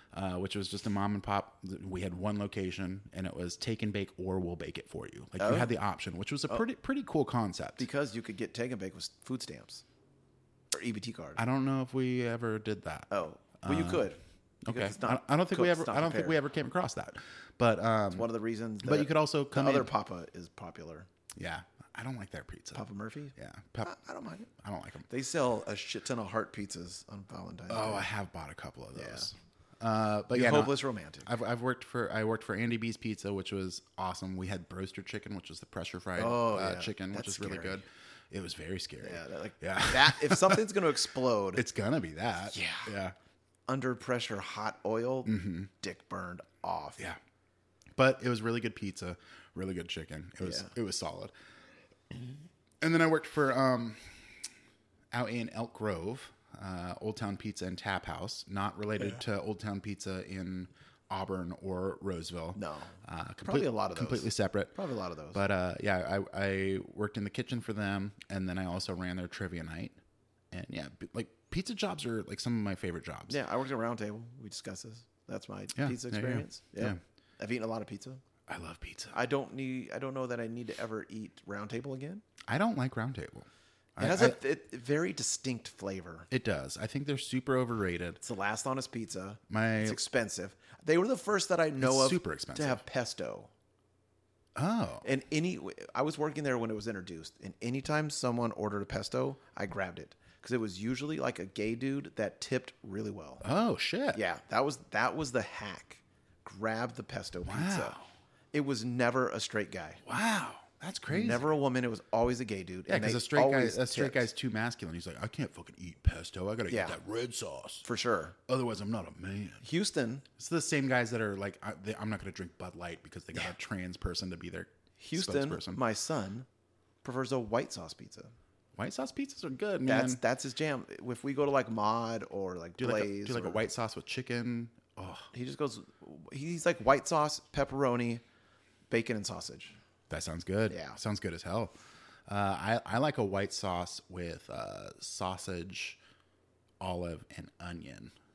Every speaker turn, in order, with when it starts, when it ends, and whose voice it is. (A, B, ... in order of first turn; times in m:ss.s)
0:00.1-0:07.9 A
0:05.4-0:05.7 B
0:07.8-0:09.8 B
0:10.7-0:11.4 B
0:11.4-0:14.1 A
0:13.1-0:16.4 B
0:14.7-0:18.3 A
0:18.1-0:21.1 B
0:18.8-0:19.9 A
0:21.4-0:22.8 A
0:22.7-0:24.5 B
0:23.4-0:24.0 A
0:24.5-0:25.1 A
0:25.1-0:28.1 B
0:27.7-0:40.8 A
0:29.0-0:29.3 B
0:30.3-0:31.3 B
0:36.2-0:37.8 B
0:39.0-0:41.6 B
0:41.6-0:43.2 A
0:42.5-0:42.9 B
0:43.7-0:47.0 B
0:45.3-0:45.7 A
0:48.0-0:51.3 A
0:50.4-0:50.7 B
0:52.8-0:54.2 A
0:55.1-1:04.7 A
1:02.6-1:05.4 B
1:05.3-1:10.0 A
1:10.5-1:13.4 A
1:13.3-1:18.2 B
1:15.8-1:17.0 A
1:18.5-1:19.2 A
1:19.1-1:22.2 B
1:22.5-1:24.4 A
1:24.0-1:26.3 B
1:26.3-1:28.2 A
1:28.2-1:33.5 B
1:29.5-1:30.0 A
1:31.8-1:32.8 A
1:34.6-1:35.0 A
1:35.0-1:43.4 B
1:43.4-1:44.2 A
1:44.1-1:48.0 B
1:47.5-1:48.1 A
1:48.5-1:50.0 B
1:50.0-1:51.4 A
1:51.1-1:54.3 B
1:52.9-1:57.8 A
1:56.7-1:57.0 B
1:57.8-1:58.4 B
1:58.5-1:59.6 A
1:59.6-2:00.2 B
2:00.4-2:05.8 A
2:05.0-2:06.5 B
2:07.0-2:08.3 B
2:08.8-2:10.2 A
2:09.9-2:13.6 B
2:12.8-2:15.3 A
2:15.3-2:18.2 B
2:18.9-2:19.8 B
2:20.1-2:21.7 A
2:20.7-2:21.0 B
2:22.3-2:26.0 A
2:26.8-2:28.1 A